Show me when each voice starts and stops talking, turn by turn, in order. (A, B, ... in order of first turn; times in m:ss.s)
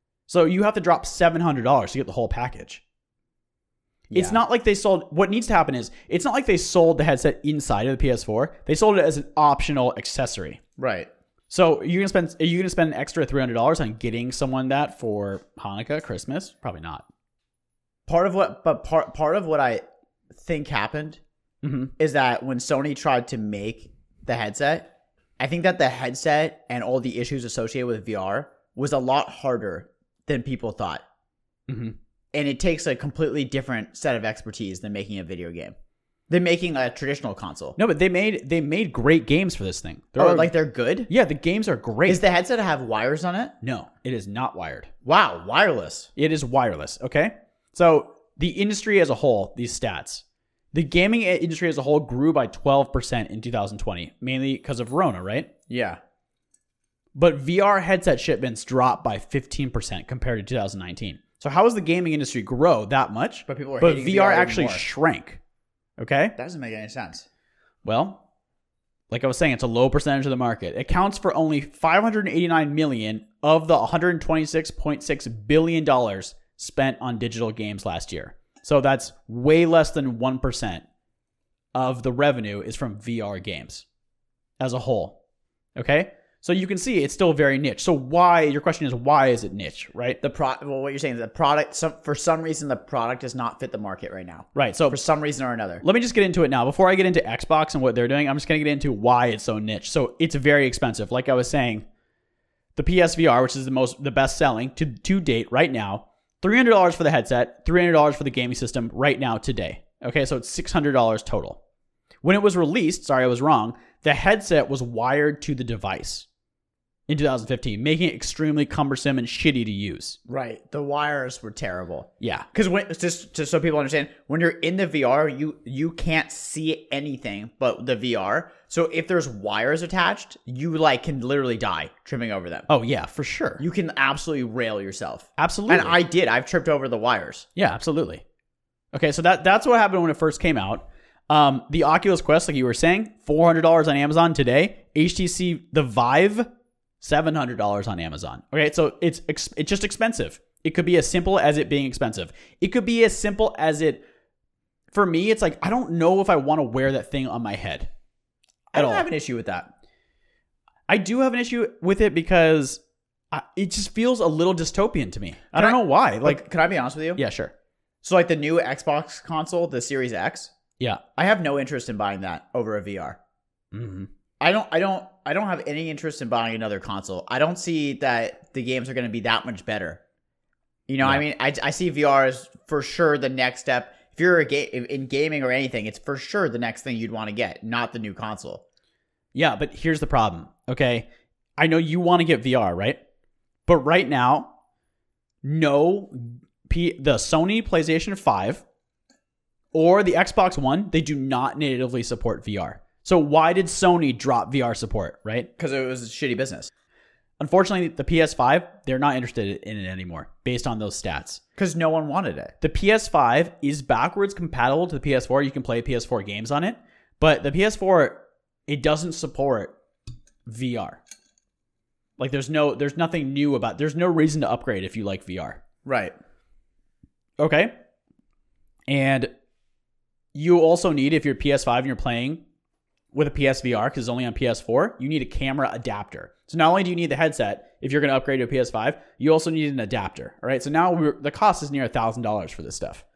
0:00.3-0:02.8 A
0:04.1-0:04.4 B
0:04.1-0:10.6 A
0:10.8-0:11.1 B
0:11.5-0:17.0 A
0:18.1-0:19.8 B
0:20.4-0:21.2 B
0:21.6-0:21.9 A
0:22.0-0:31.0 B
0:31.7-0:32.0 A
0:32.3-0:35.8 B
0:36.3-0:37.8 B
0:37.8-0:40.5 A
0:40.2-0:41.1 B
0:41.1-0:42.2 A
0:42.1-0:43.6 B
0:43.6-0:44.9 A
0:45.0-0:46.1 B
0:46.2-0:55.5 A
0:55.7-0:56.0 B
0:57.1-1:05.4 A
1:03.5-1:04.8 B
1:06.0-1:06.4 A
1:06.4-1:07.3 B
1:07.8-1:08.2 A
1:09.1-1:20.8 A
1:21.7-1:23.9 A
1:24.6-1:25.2 A
1:25.8-1:30.2 A
1:30.2-1:35.8 B
1:34.6-1:35.0 A
1:35.8-1:41.9 A
1:42.8-1:51.6 A
1:52.2-1:56.3 A
1:57.1-2:00.2 A
2:00.3-2:12.7 B
2:02.2-2:02.5 A
2:12.7-2:13.6 A
2:13.6-2:17.5 B
2:15.4-2:16.0 A
2:17.6-2:18.2 A
2:18.9-2:26.5 A
2:27.0-2:34.0 A
2:34.9-2:37.9 A
2:38.7-2:39.7 B
2:38.8-2:39.1 A
2:40.9-2:46.4 A
2:45.6-2:47.2 B
2:47.2-2:47.5 A
2:48.0-2:50.5 B
2:51.2-2:53.2 B
2:53.7-2:54.1 A
2:54.4-3:00.0 B
3:00.9-3:08.6 B
3:09.3-3:13.0 A
3:13.7-3:14.5 A
3:15.4-3:18.6 A
3:19.7-3:25.5 A
3:25.6-3:26.7 B
3:27.4-3:31.4 A
3:31.6-3:32.5 B
3:32.6-3:39.8 A
3:40.4-3:41.0 A
3:42.2-3:45.6 A
3:45.8-3:46.1 B
3:47.4-3:47.7 A
3:48.9-3:49.3 A
3:50.3-3:52.4 A
3:53.1-4:03.0 A